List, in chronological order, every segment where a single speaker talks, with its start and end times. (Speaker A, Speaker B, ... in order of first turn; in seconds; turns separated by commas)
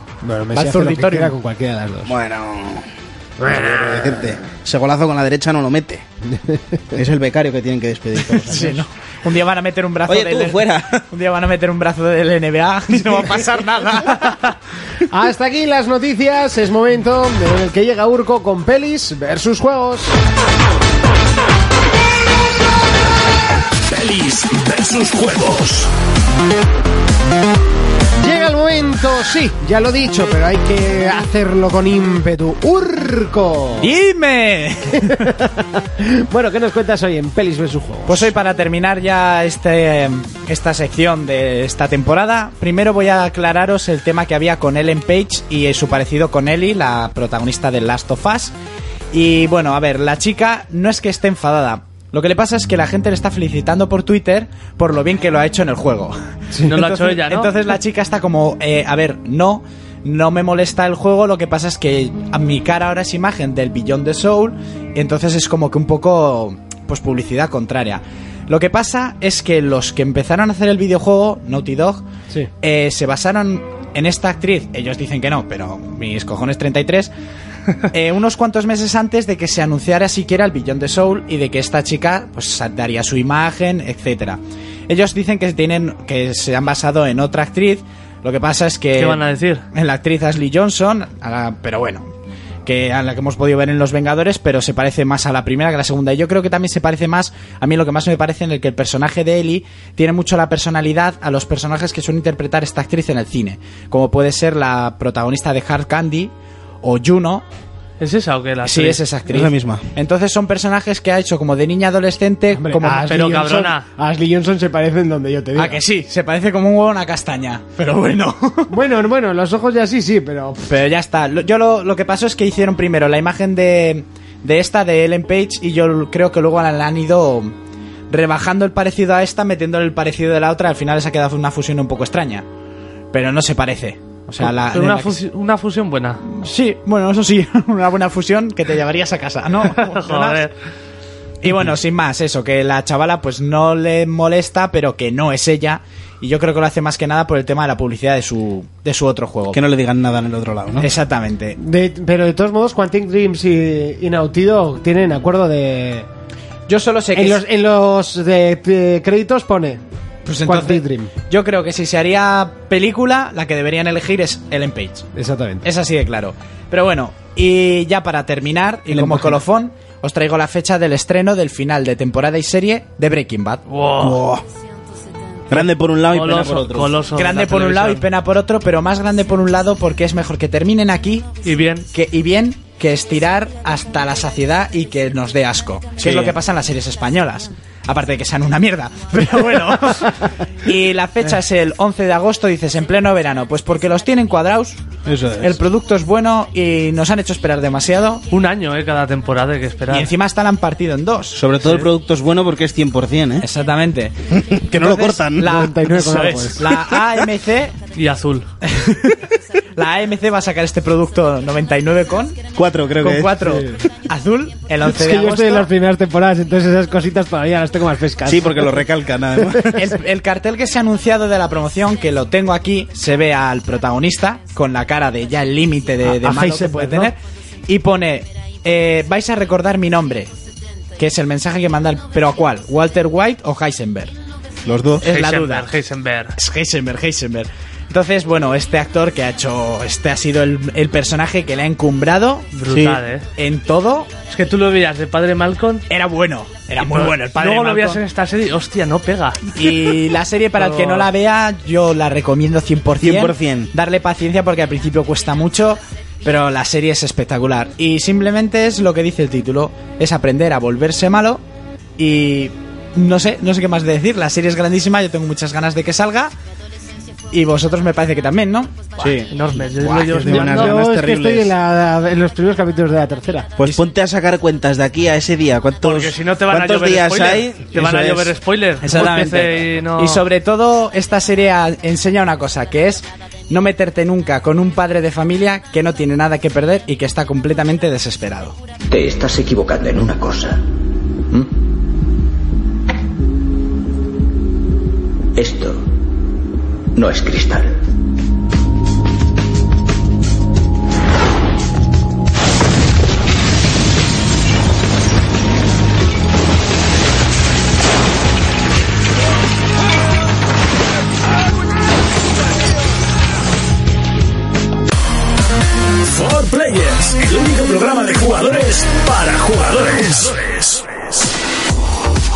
Speaker A: 0.2-2.1, Speaker B: 0.5-1.3, Speaker C: 2.0-2.9, Speaker A: 3.4-4.2, Speaker C: 3.4-6.0, Speaker A: 6.3-6.8, Speaker C: 6.9-8.8, Speaker B: 8.2-14.5, Speaker C: 10.1-11.1, Speaker A: 15.1-20.1, Speaker D: 23.9-25.9, Speaker A: 28.2-33.9, Speaker B: 33.8-35.3, Speaker A: 35.0-38.3, Speaker B: 38.1-48.5, Speaker B: 49.1-72.0, Speaker E: 56.6-57.5, Speaker B: 72.6-77.1, Speaker B: 77.9-92.1, Speaker E: 89.0-89.6, Speaker B: 92.6-107.5, Speaker E: 108.0-109.0, Speaker B: 108.6-113.3, Speaker C: 109.3-109.8, Speaker A: 112.5-115.8, Speaker E: 113.0-113.8, Speaker B: 115.5-118.7, Speaker A: 118.7-120.7, Speaker B: 120.7-127.5, Speaker B: 128.1-132.4, Speaker B: 133.1-135.2, Speaker E: 134.4-136.2, Speaker B: 136.2-140.5, Speaker E: 139.7-140.5, Speaker B: 141.4-149.6, Speaker C: 149.5-150.9, Speaker B: 150.8-151.6, Speaker A: 151.6-156.1, Speaker B: 156.7-157.4, Speaker A: 157.1-159.8, Speaker B: 160.2-165.1, Speaker A: 160.4-161.1, Speaker A: 165.1-165.7, Speaker B: 165.6-173.6, Speaker C: 168.9-169.3, Speaker E: 173.7-174.2, Speaker C: 174.0-174.4, Speaker C: 175.5-177.0, Speaker E: 176.1-178.0, Speaker B: 177.1-181.4, Speaker E: 181.4-181.9, Speaker B: 181.9-194.8, Speaker C: 186.0-186.4, Speaker C: 195.0-195.6, Speaker B: 195.4-198.2, Speaker E: 198.3-200.1, Speaker B: 199.9-201.8, Speaker C: 201.3-203.5, Speaker B: 203.4-207.8, Speaker C: 204.3-205.6, Speaker A: 205.4-206.7, Speaker E: 207.9-208.5, Speaker B: 208.6-215.7, Speaker C: 212.5-213.4, Speaker A: 213.4-213.8, Speaker A: 214.8-218.8, Speaker C: 218.2-219.8, Speaker A: 219.4-219.6, Speaker B: 219.7-230.3, Speaker A: 226.0-227.1, Speaker B: 231.0-234.1, Speaker C: 234.7-235.1, Speaker B: 235.0-235.7, Speaker E: 235.0-236.3, Speaker B: 236.3-242.6, Speaker E: 242.5-243.2, Speaker C: 242.7-243.0, Speaker B: 243.3-244.1, Speaker E: 244.3-245.8, Speaker B: 245.9-248.0, Speaker E: 246.8-249.6, Speaker B: 249.5-261.4, Speaker E: 250.6-251.1, Speaker C: 253.0-253.7, Speaker B: 262.0-266.3, Speaker B: 267.3-268.8, Speaker C: 269.0-271.5, Speaker E: 269.3-270.8, Speaker A: 270.2-273.5, Speaker C: 273.6-278.3, Speaker E: 275.8-280.2, Speaker B: 278.8-288.6, Speaker C: 278.9-279.4, Speaker F: 288.9-290.6, Speaker F: 295.4-295.8, Speaker F: 296.9-297.8, Speaker D: 316.0-321.3